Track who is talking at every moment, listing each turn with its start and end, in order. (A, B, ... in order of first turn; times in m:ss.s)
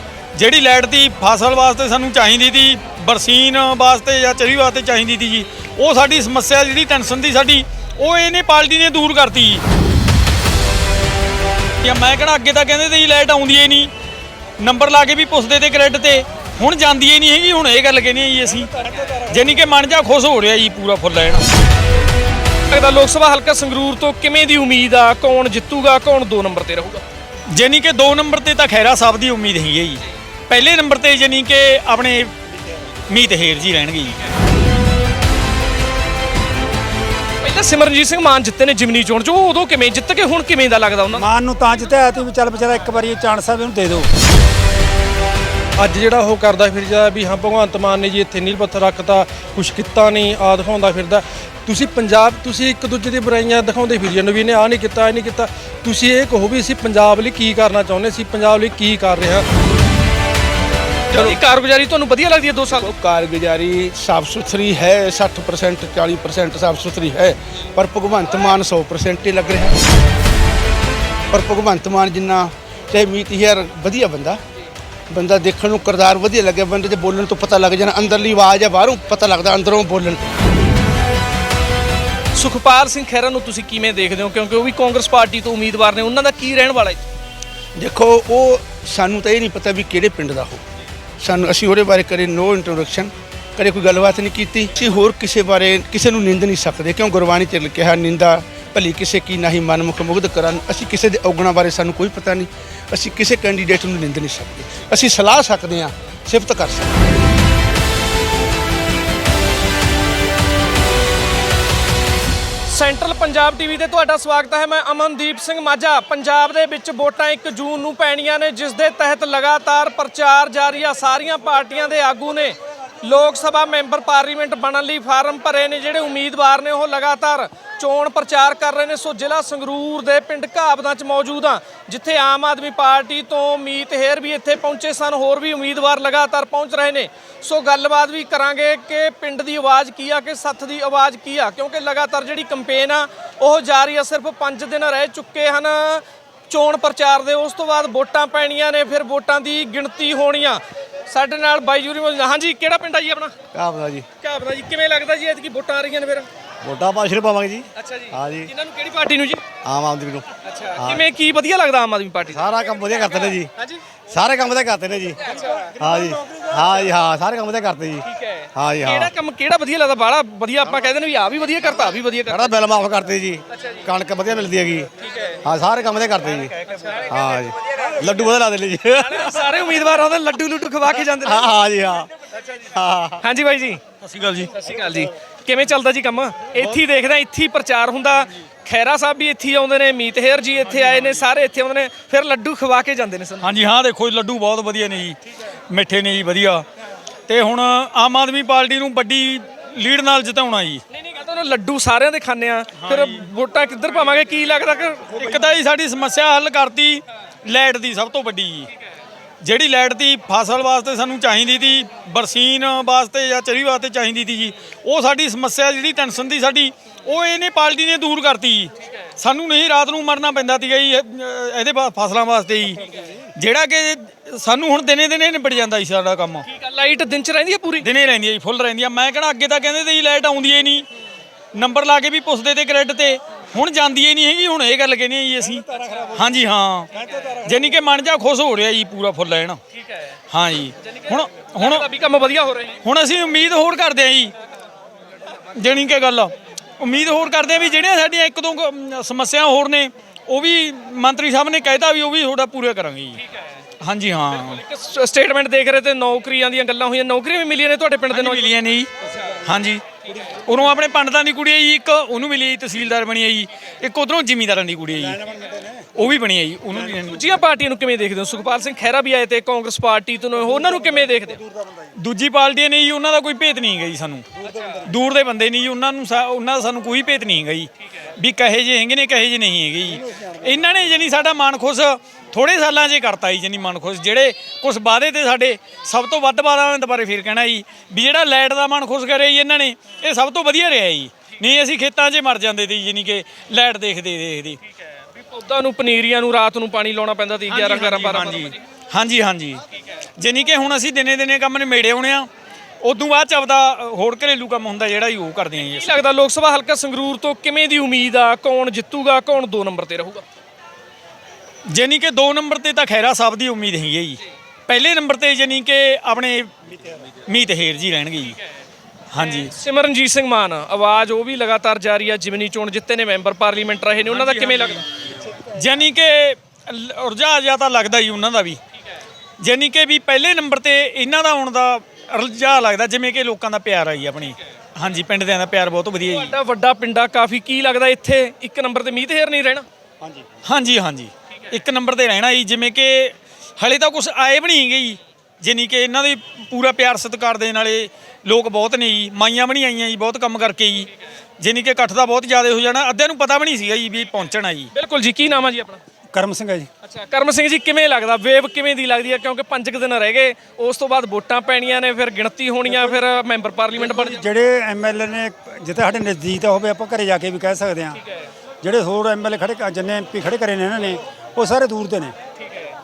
0:00.3-0:09.6 A
0:11.8-0:13.9 A
0:14.6-0:21.4 A
0:22.7-0:27.0 B
0:27.5-0:32.3 A
0:33.1-0:34.2 A
0:37.4-0:41.3 B
0:41.2-0:44.1 C
0:45.8-0:59.4 D
1:01.1-1:02.9 B
1:01.1-1:01.4 E
1:02.7-1:09.8 E
1:11.3-1:14.4 E
1:15.1-1:20.4 E
1:22.3-1:27.0 B
1:27.8-1:30.6 E
1:31.2-1:47.0 E
1:52.6-2:33.3 B
2:33.5-2:34.0 F
2:34.2-2:36.3 B
2:36.6-2:38.5 F
2:37.8-2:39.4 B
2:39.6-2:41.1 F
2:40.4-2:43.8 B
2:42.3-2:43.5 F
2:44.1-2:49.1 F
2:45.3-2:45.6 B
2:45.3-2:46.9 C
2:48.0-2:52.6 B
2:52.3-2:54.9 F
2:53.5-2:53.9 B
2:55.0-2:55.4 B
2:55.4-2:56.5 F
2:56.6-2:57.4 B
2:57.1-2:59.6 F
2:59.0-3:01.5 B
3:01.0-3:02.1 F
3:02.7-3:03.2 F
3:03.2-3:03.8 B
3:04.0-3:04.5 A
3:04.5-3:13.6 B
3:13.4-3:15.2 A
3:15.7-3:16.6 A
3:17.3-3:20.8 A
3:20.9-3:25.3 B
3:22.8-3:23.2 A
3:25.1-3:28.7 A
3:29.4-3:46.4 A
3:46.4-3:47.9 B
3:47.8-3:50.8 A
3:51.5-3:56.9 A
3:55.7-3:56.4 C
3:57.0-3:57.5 C
3:57.4-3:59.6 A
3:59.7-4:00.0 B
4:00.3-4:01.9 A
4:00.8-4:02.8 B
4:02.8-4:04.3 A
4:05.5-4:13.2 A
4:13.8-4:14.6 A
4:14.3-4:18.5 B
4:18.1-4:18.9 A
4:19.4-4:25.2 A
4:25.0-4:25.8 C
4:25.9-4:27.2 A
4:27.1-4:31.4 B
4:30.5-4:31.9 C
4:32.0-4:34.3 A
4:34.4-4:34.8 C
4:34.8-4:54.6 A
4:55.2-4:58.6 B
4:57.5-4:59.6 A
5:00.2-5:02.3 A
5:02.8-5:06.0 A
5:05.7-5:10.2 B
5:11.7-5:18.4 A
5:19.1-5:19.5 A
5:19.2-5:24.8 B
5:24.0-5:28.6 A
5:29.4-5:36.4 A
5:36.1-5:39.6 B
5:40.4-5:54.7 A
5:54.7-5:55.8 B
5:56.1-5:56.7 C
5:56.8-6:04.2 B
6:02.7-6:03.0 C
6:04.0-6:08.0 C
6:08.6-6:12.1 C